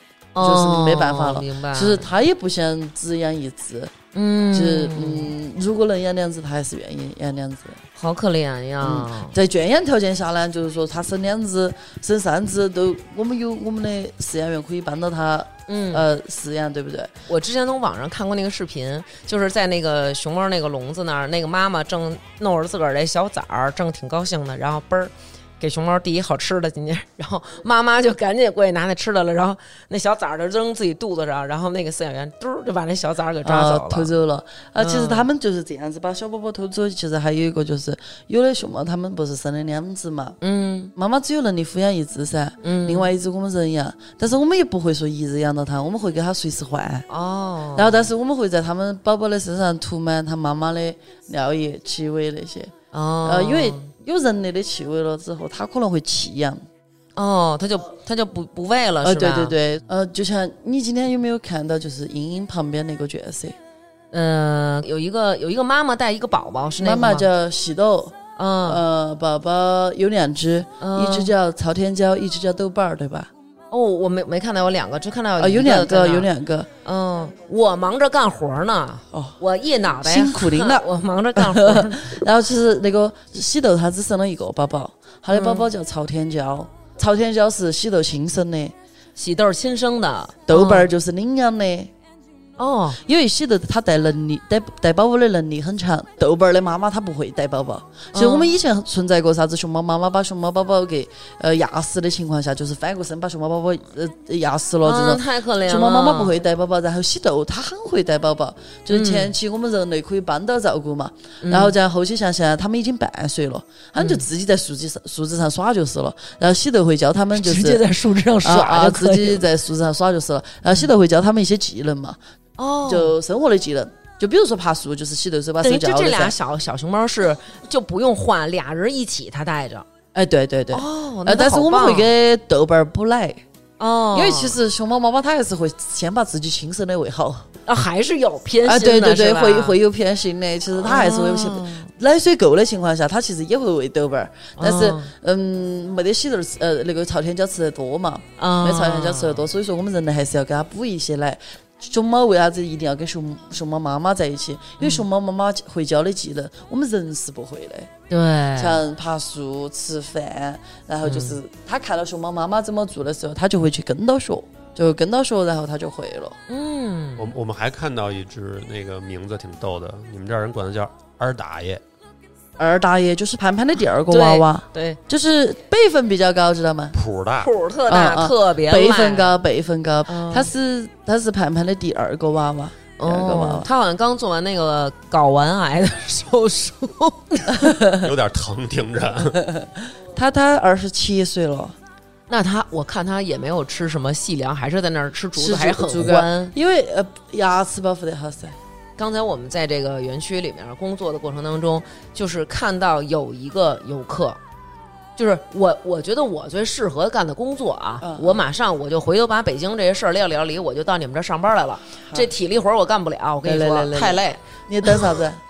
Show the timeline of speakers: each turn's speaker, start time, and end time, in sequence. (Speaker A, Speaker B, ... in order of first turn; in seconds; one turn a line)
Speaker A: 0.3-2.1
Speaker B: 0.4-3.9
Speaker A: 4.1-5.3
Speaker B: 4.5-7.8
Speaker A: 7.9-9.3
Speaker B: 8.8-17.1
Speaker A: 15.7-16.1
Speaker A: 17.3-34.1
Speaker B: 33.4-40.4
Speaker A: 34.8-35.3
Speaker A: 40.4-40.9
Speaker B: 40.9-47.0
Speaker A: 42.6-43.1
Speaker A: 47.1-48.1
Speaker B: 47.7-52.7
Speaker A: 52.9-53.9
Speaker B: 53.2-56.6
Speaker A: 57.1-59.5
Speaker B: 59.0-63.5
Speaker A: 64.1-67.3
Speaker B: 66.8-73.3
Speaker A: 68.3-68.8
Speaker A: 70.8-71.3
Speaker A: 73.7-76.3
Speaker B: 75.4-76.7
Speaker A: 76.8-82.2
Speaker B: 79.9-88.7
Speaker A: 85.3-85.7
Speaker A: 89.2-90.9
Speaker B: 90.5-91.9
Speaker A: 92.6-93.0
Speaker B: 93.0-117.8
Speaker A: 98.1-98.5
Speaker A: 104.8-106.3
Speaker A: 108.9-109.3
Speaker A: 111.4-111.7
Speaker A: 114.0-114.2
Speaker A: 117.3-119.4
Speaker B: 118.4-122.2
Speaker A: 122.6-123.1
Speaker B: 122.8-126.3
Speaker A: 125.6-129.8
Speaker B: 130.1-133.4
Speaker A: 130.7-132.1
Speaker A: 133.8-134.6
Speaker B: 134.1-137.5
Speaker A: 137.7-139.8
Speaker B: 138.6-157.9
Speaker A: 140.8-141.9
Speaker A: 144.6-145.1
Speaker A: 148.4-149.4
Speaker A: 154.8-155.0
Speaker A: 158.1-158.8
Speaker B: 158.5-166.4
Speaker A: 161.0-161.4
Speaker A: 166.5-167.3
Speaker C: 167.2-171.8
Speaker B: 172.6-176.9
Speaker A: 174.1-175.0
Speaker C: 176.9-177.5
Speaker A: 177.4-179.4
Speaker B: 177.9-183.7
Speaker A: 180.1-180.5
Speaker A: 183.0-187.7
Speaker B: 187.6-188.1
Speaker C: 188.0-189.4
Speaker B: 189.4-191.8
Speaker A: 192.3-196.5
Speaker B: 195.3-198.6
Speaker A: 199.0-204.4
Speaker A: 205.2-215.0
Speaker B: 208.0-208.4
Speaker B: 213.4-215.4